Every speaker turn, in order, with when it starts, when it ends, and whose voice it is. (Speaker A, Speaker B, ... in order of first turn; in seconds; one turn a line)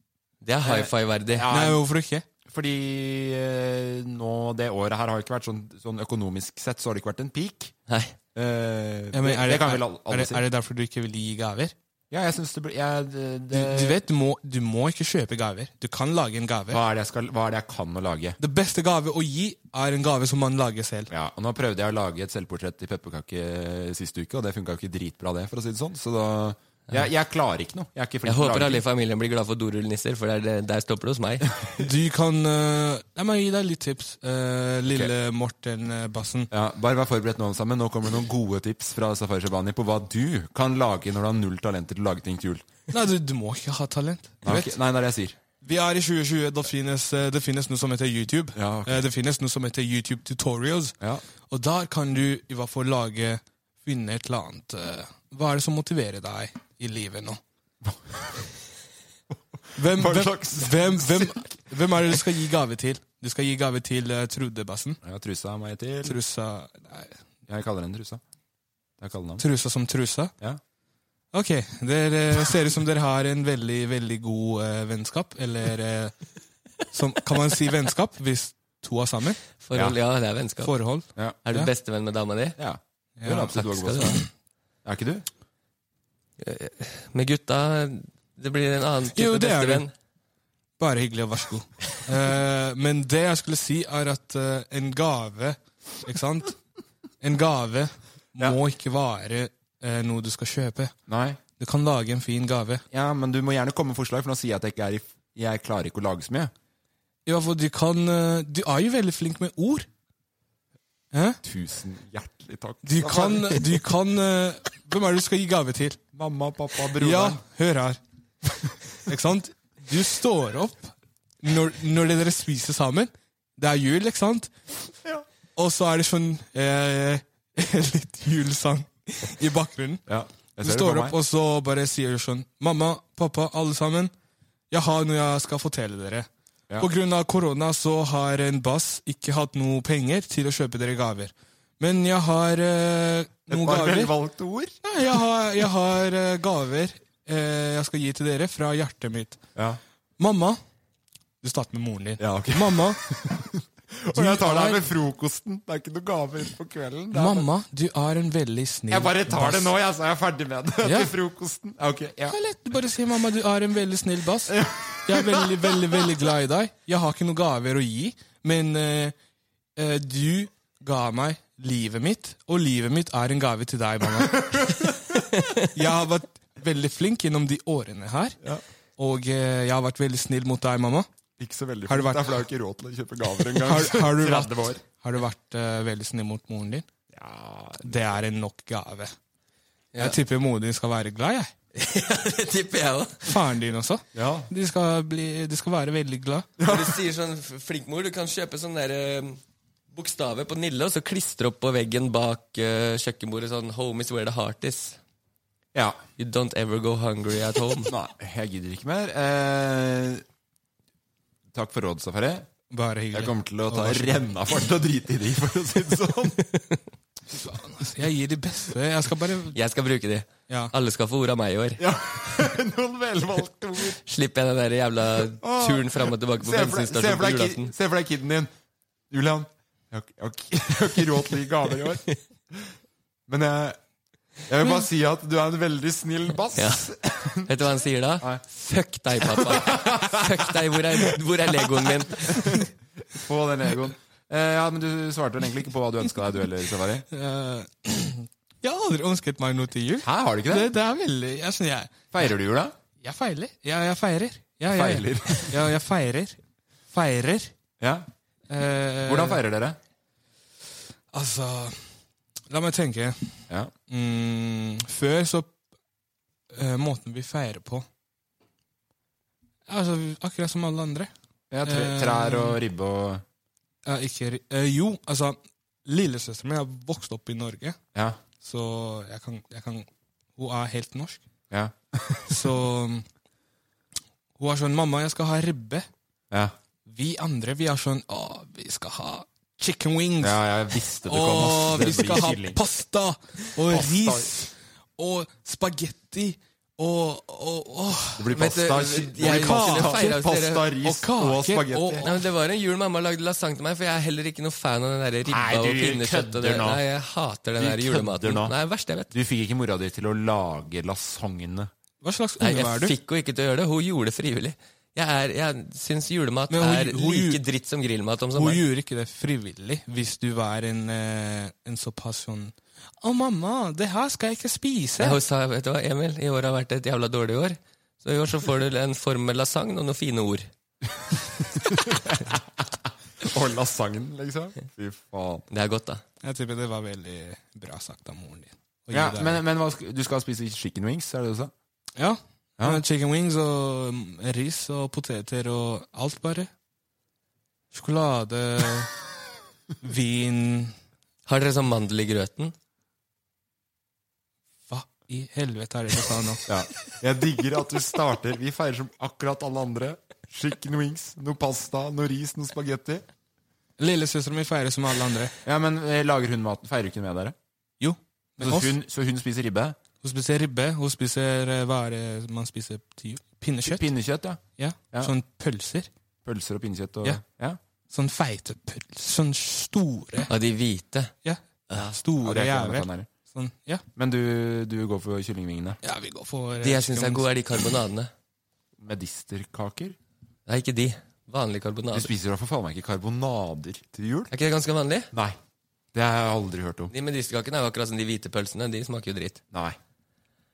Speaker A: 0.4-1.5
Speaker B: 0.6-1.8
Speaker C: 1.5-2.2
Speaker B: 2.5-7.7
Speaker A: 7.9-8.2
Speaker B: 8.3-10.4
Speaker C: 9.1-11.7
Speaker B: 12.1-14.0
Speaker C: 13.5-16.8
Speaker B: 16.7-18.4
Speaker C: 18.4-21.1
Speaker B: 21.1-28.8
Speaker A: 28.2-31.5
Speaker C: 31.8-36.5
Speaker B: 36.5-42.7
Speaker C: 42.9-44.7
Speaker B: 44.4-45.4
Speaker C: 45.6-51.0
Speaker B: 48.5-49.0
Speaker C: 51.5-57.4
Speaker B: 57.8-58.4
Speaker B: 59.3-61.6
Speaker C: 59.8-65.0
Speaker B: 65.0-66.2
Speaker C: 66.0-67.2
Speaker B: 67.5-68.2
Speaker B: 69.0-69.4
Speaker C: 69.4-70.3
Speaker C: 71.3-76.2
Speaker C: 76.9-79.4
Speaker A: 79.6-80.8
Speaker C: 80.6-81.7
Speaker A: 81.5-82.6
Speaker B: 82.6-84.2
Speaker C: 83.2-83.7
Speaker A: 83.6-84.2
Speaker B: 84.8-85.3
Speaker A: 86.4-89.9
Speaker C: 89.2-89.9
Speaker C: 90.8-96.6
Speaker C: 97.2-101.0
Speaker B: 101.1-101.4
Speaker C: 101.6-102.8
Speaker B: 102.9-106.5
Speaker C: 107.3-109.9
Speaker C: 111.1-111.4
Speaker B: 111.4-113.6
Speaker C: 112.8-116.0
Speaker B: 116.1-117.4
Speaker C: 117.0-118.0
Speaker C: 119.0-124.5
Speaker C: 125.6-130.1
Speaker B: 130.1-131.2
Speaker C: 130.6-134.1
Speaker C: 134.7-136.3
Speaker C: 136.8-144.1
Speaker B: 143.5-144.8
Speaker C: 144.8-149.4
Speaker B: 149.6-149.8
Speaker C: 150.2-150.6
Speaker C: 151.4-153.0
Speaker B: 152.2-157.5
Speaker C: 154.1-154.8
Speaker C: 157.1-159.7
Speaker B: 158.9-162.4
Speaker C: 160.8-161.1
Speaker C: 162.3-169.2
Speaker B: 164.5-166.0
Speaker C: 169.8-174.5
Speaker B: 174.2-175.2
Speaker C: 175.7-178.4
Speaker C: 179.0-181.1
Speaker B: 181.4-184.8
Speaker C: 181.9-182.4
Speaker C: 183.6-186.9
Speaker B: 187.1-188.2
Speaker C: 187.8-189.1
Speaker C: 190.0-191.5
Speaker A: 191.8-193.3
Speaker C: 193.2-196.5
Speaker B: 194.1-194.5
Speaker B: 196.6-197.0
Speaker A: 196.6-199.4
Speaker A: 199.9-205.0
Speaker B: 205.7-206.0
Speaker A: 206.2-207.9
Speaker B: 207.9-210.2
Speaker B: 211.5-212.5
Speaker C: 212.7-214.3
Speaker B: 213.1-216.4
Speaker C: 217.4-219.6
Speaker A: 219.5-221.8
Speaker B: 221.8-224.0
Speaker A: 224.0-227.7
Speaker B: 225.4-228.5
Speaker B: 229.1-232.7
Speaker B: 233.3-233.8
Speaker B: 234.5-237.5
Speaker A: 236.6-236.9
Speaker A: 237.4-242.6
Speaker B: 239.2-247.1
Speaker C: 247.1-252.1
Speaker B: 250.0-250.7
Speaker B: 252.1-252.8
Speaker C: 253.0-256.4
Speaker B: 254.7-255.6
Speaker C: 256.9-257.5
Speaker B: 257.8-258.1
Speaker C: 258.5-259.4
Speaker B: 259.1-259.8
Speaker C: 261.1-261.9
Speaker C: 262.5-265.6
Speaker C: 266.5-267.9
Speaker C: 269.7-271.1
Speaker B: 271.5-273.2
Speaker C: 271.6-272.6
Speaker C: 273.9-277.8
Speaker B: 277.9-278.2
Speaker C: 278.4-281.2
Speaker B: 281.5-282.5
Speaker C: 282.3-283.1
Speaker C: 284.4-285.9
Speaker C: 286.9-290.4
Speaker B: 290.2-292.6
Speaker C: 291.1-298.3
Speaker B: 293.7-294.3
Speaker B: 298.2-302.1
Speaker A: 298.3-300.7
Speaker C: 299.2-300.3
Speaker C: 300.8-302.1
Speaker A: 302.0-309.1
Speaker B: 305.3-306.8
Speaker B: 307.6-308.6
Speaker B: 309.1-311.7
Speaker C: 312.0-312.9
Speaker A: 312.4-318.6
Speaker C: 316.5-317.4
Speaker C: 318.4-325.2
Speaker A: 325.0-330.5
Speaker B: 331.4-335.4
Speaker A: 335.5-336.0
Speaker C: 336.2-339.4
Speaker B: 338.9-341.5
Speaker C: 342.0-346.5
Speaker C: 347.7-348.9
Speaker C: 349.8-350.7
Speaker A: 351.3-352.5
Speaker C: 354.7-356.5
Speaker B: 356.5-363.1
Speaker C: 363.8-365.3
Speaker B: 365.4-367.4
Speaker C: 367.8-368.8
Speaker B: 368.4-369.8
Speaker C: 370.0-373.9
Speaker B: 373.7-374.4
Speaker C: 374.6-375.9
Speaker B: 376.2-377.6
Speaker C: 377.9-380.3
Speaker A: 380.3-381.1
Speaker C: 381.2-383.8
Speaker B: 381.8-383.1
Speaker B: 384.0-385.8
Speaker C: 385.8-387.3
Speaker A: 386.6-388.1
Speaker B: 388.8-390.0
Speaker A: 390.5-392.1
Speaker B: 391.9-394.3
Speaker A: 394.3-395.1
Speaker B: 395.1-395.4
Speaker B: 395.9-396.9
Speaker A: 396.9-399.4
Speaker B: 399.5-399.8